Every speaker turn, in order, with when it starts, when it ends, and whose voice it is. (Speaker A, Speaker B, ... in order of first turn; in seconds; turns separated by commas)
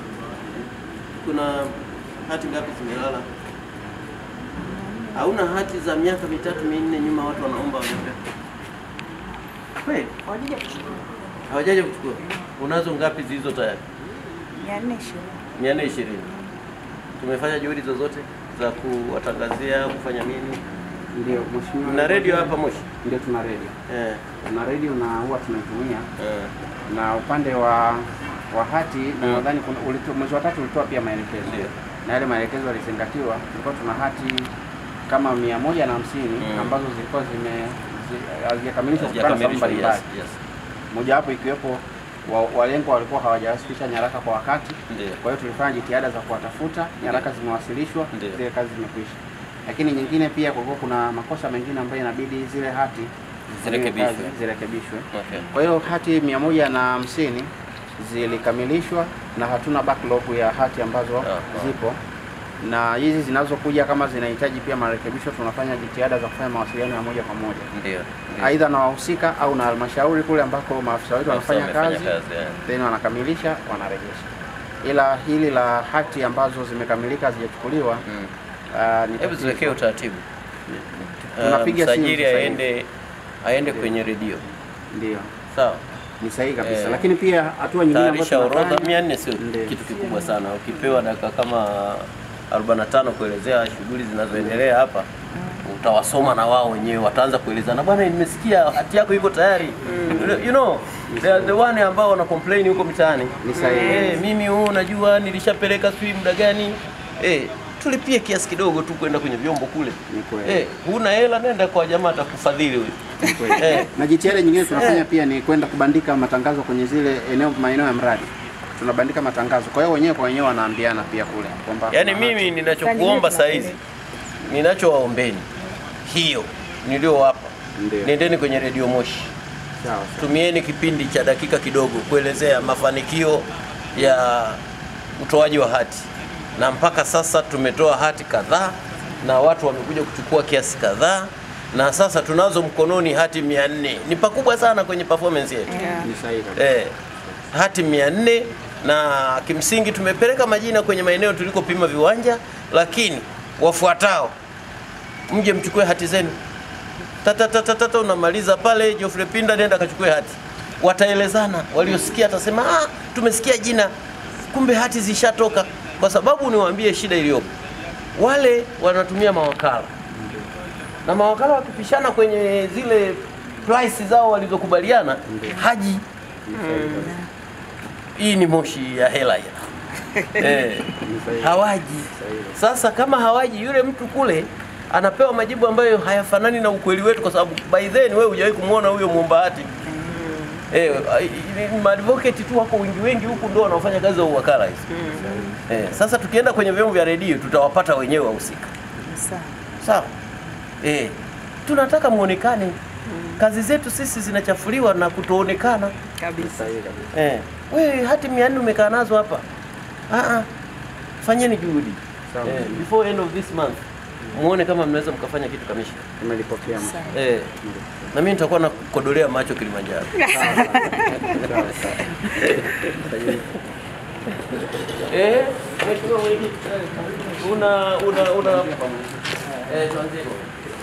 Speaker A: 1.2-1.7, Speaker A: 2.2-3.3, Speaker B: 4.6-5.2, Speaker A: 5.1-8.2, Speaker A: 9.8-10.1, Speaker B: 10.2-10.9, Speaker A: 11.5-13.8, Speaker B: 14.5-15.4, Speaker A: 15.5-16.4, Speaker A: 17.2-20.6, Speaker C: 21.1-23.7, Speaker A: 21.8-22.9, Speaker A: 23.9-24.2, Speaker C: 24.4-26.1, Speaker A: 26.2-26.5, Speaker C: 26.9-34.5, Speaker A: 31.4-31.7, Speaker C: 35.1-40.0, Speaker A: 36.4-36.8, Speaker A: 39.0-40.4, Speaker C: 40.9-62.0, Speaker A: 44.9-45.2, Speaker A: 48.1-48.4, Speaker A: 53.6-54.3, Speaker A: 55.1-55.5, Speaker A: 61.2-61.7, Speaker C: 62.6-67.7, Speaker A: 67.7-68.5, Speaker C: 68.4-74.3, Speaker A: 71.3-72.6, Speaker C: 74.8-78.0, Speaker A: 78.1-78.3, Speaker C: 78.7-79.8, Speaker A: 79.2-82.9, Speaker C: 81.3-82.6, Speaker A: 83.4-84.4, Speaker C: 83.7-83.9, Speaker C: 84.9-85.3, Speaker A: 85.5-85.8, Speaker C: 86.2-89.8, Speaker A: 86.6-87.1, Speaker A: 87.9-95.1, Speaker C: 94.3-94.6, Speaker A: 95.6-113.9, Speaker B: 99.9-100.2, Speaker C: 101.1-101.6, Speaker C: 103.4-104.1, Speaker B: 103.5-104.2, Speaker C: 110.1-110.7, Speaker C: 113.2-122.6, Speaker A: 114.7-115.1, Speaker A: 121.9-123.8, Speaker B: 122.8-123.8, Speaker A: 124.4-125.5, Speaker A: 126.0-129.3, Speaker C: 127.7-128.1, Speaker C: 129.8-130.2, Speaker A: 130.2-134.6, Speaker A: 135.2-145.9, Speaker B: 145.7-146.1, Speaker C: 145.9-146.8, Speaker A: 146.6-146.9, Speaker A: 147.5-154.3, Speaker A: 155.3-156.4, Speaker A: 157.2-163.9, Speaker A: 164.5-167.5, Speaker A: 168.1-169.9, Speaker C: 170.1-170.5, Speaker A: 171.0-176.0, Speaker C: 175.2-175.7, Speaker C: 176.4-177.2, Speaker B: 176.5-177.3, Speaker A: 178.2-179.7, Speaker B: 180.1-180.5, Speaker A: 180.3-189.8, Speaker C: 180.9-182.6, Speaker B: 189.9-190.6, Speaker A: 190.7-194.9, Speaker B: 194.9-195.3, Speaker C: 195.0-195.8, Speaker A: 195.7-198.7, Speaker B: 199.0-199.6, Speaker A: 199.8-200.1, Speaker A: 200.8-202.8, Speaker B: 203.1-203.4, Speaker A: 203.3-205.9, Speaker B: 206.2-206.7, Speaker C: 206.3-207.1, Speaker A: 207.1-209.4, Speaker A: 210.1-210.5, Speaker A: 211.2-213.8, Speaker C: 212.3-212.8, Speaker A: 214.3-216.0, Speaker C: 216.2-218.1, Speaker A: 217.1-217.5, Speaker A: 218.1-220.6, Speaker B: 220.2-221.4, Speaker C: 220.2-223.5, Speaker A: 221.8-223.2, Speaker A: 224.6-230.5, Speaker C: 228.5-228.7